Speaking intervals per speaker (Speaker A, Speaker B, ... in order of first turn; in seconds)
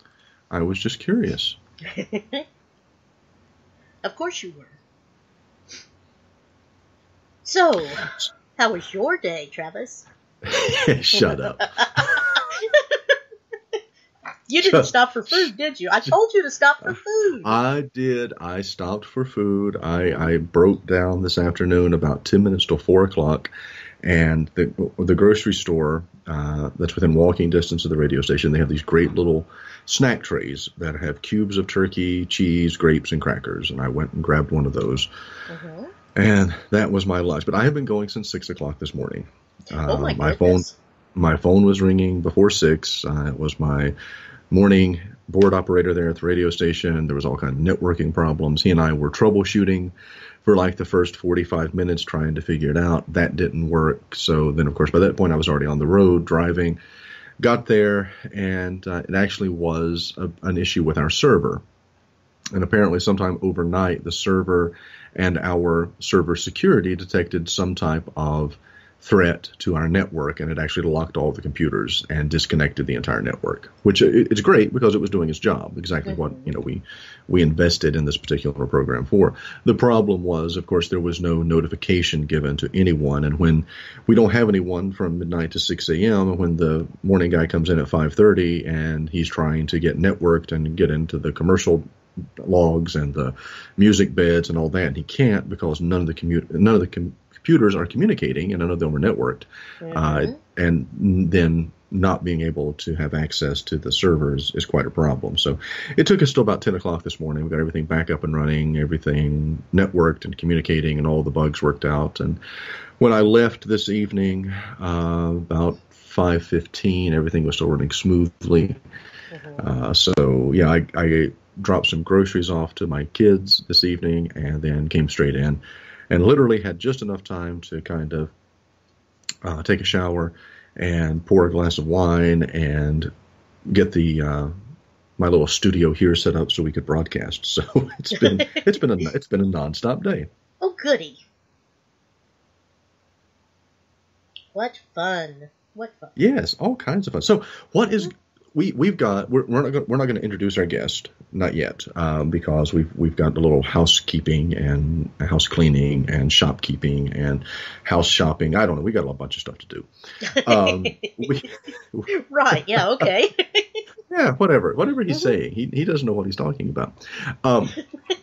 Speaker A: 0.5-1.6, 10.5-11.7, 14.6-15.5, 16.8-23.5, 24.0-35.1, 36.1-43.9, 44.5-56.8, 57.4-61.6, 62.5-112.4, 113.0-118.8, 119.6-128.3, 129.4-133.1, 133.7-134.5, 135.2-140.3, 146.2-163.1, 164.1-167.8
Speaker B: 1.9-2.5, 4.0-4.7, 7.4-10.1, 11.1-13.1, 14.5-17.6, 20.0-20.3, 35.5-35.9, 39.8-40.7, 76.0-76.4, 99.8-100.4, 119.3-119.6, 138.2-138.7, 140.6-141.2, 144.5-146.1, 160.3-161.4, 162.1-163.8